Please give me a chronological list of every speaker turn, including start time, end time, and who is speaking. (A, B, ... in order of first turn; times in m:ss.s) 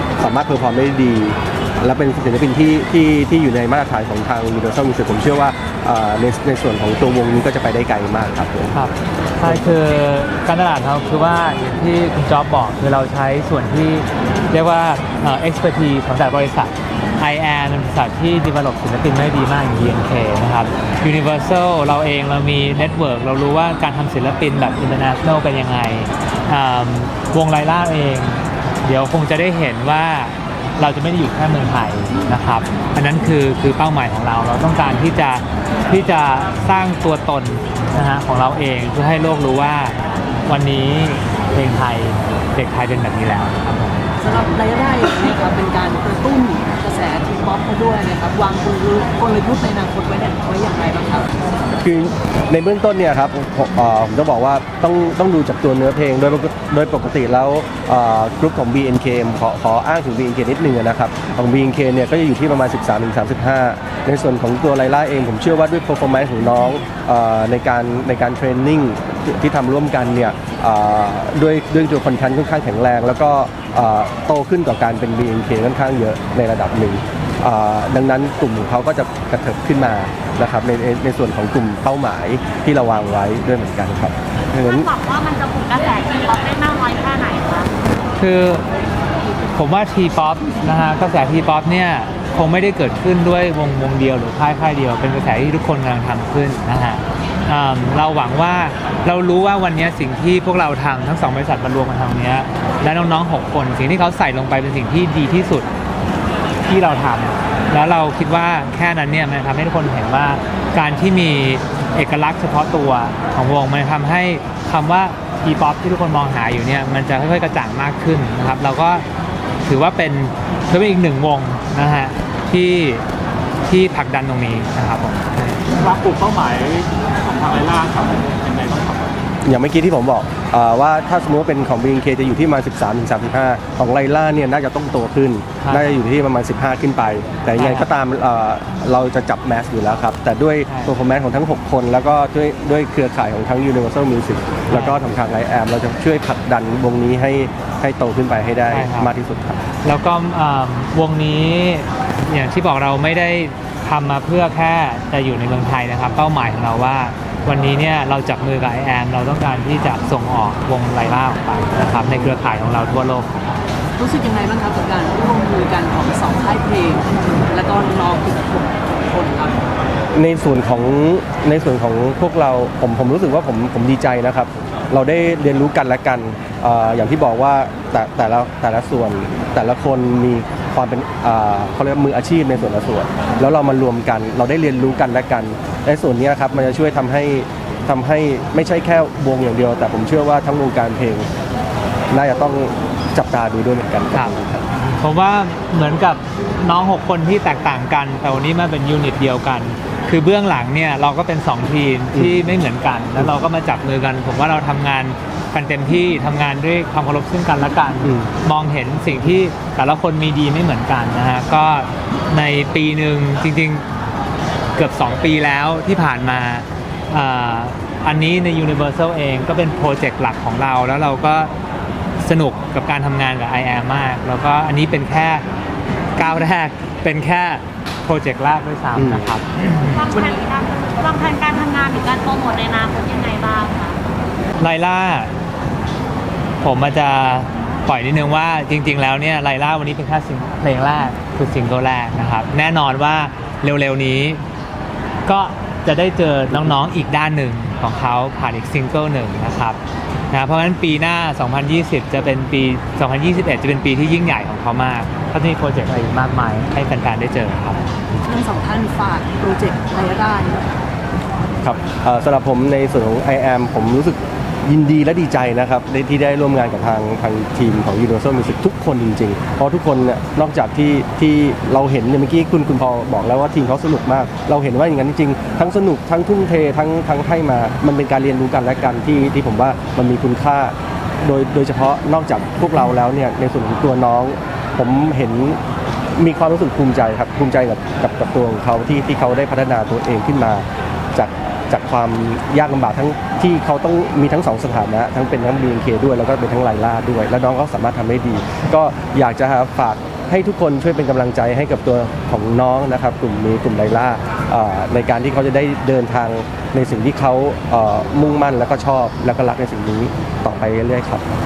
0:00.2-0:08.8 A
0:08.7-0:44.0 B
0:09.4-0:09.8 A
0:44.2-0:51.3 C
0:51.8-1:24.9 A
1:24.6-1:27.7 D
1:28.2-1:28.7 B
1:29.5-1:45.7 B
1:46.6-1:59.0 B
1:59.7-2:03.0 B
2:03.7-2:05.6 B
2:05.7-2:09.2 E
2:09.4-2:29.6 A
2:15.6-2:16.0 B
2:17.5-2:17.9 B
2:20.7-2:20.9 B
2:24.7-2:25.0 B
2:28.7-2:29.1 B
2:29.8-2:43.3 B
2:44.0-2:49.7 C
2:50.2-3:11.3 A
3:12.1-3:14.7 A
3:14.9-3:33.8 B
3:22.1-3:22.5 A
3:28.0-3:28.3 A
3:34.8-3:41.5 B
3:42.2-3:45.4 B
3:46.2-3:50.1 B
3:49.0-3:49.3 A
3:49.9-3:54.0 D
3:54.6-3:55.3 B
3:56.6-4:04.4 B
4:05.3-4:09.8 B
4:06.5-4:06.8 A
4:10.3-4:17.9 B
4:18.2-4:20.7 C
4:21.6-4:45.6 A
4:46.2-5:11.2 A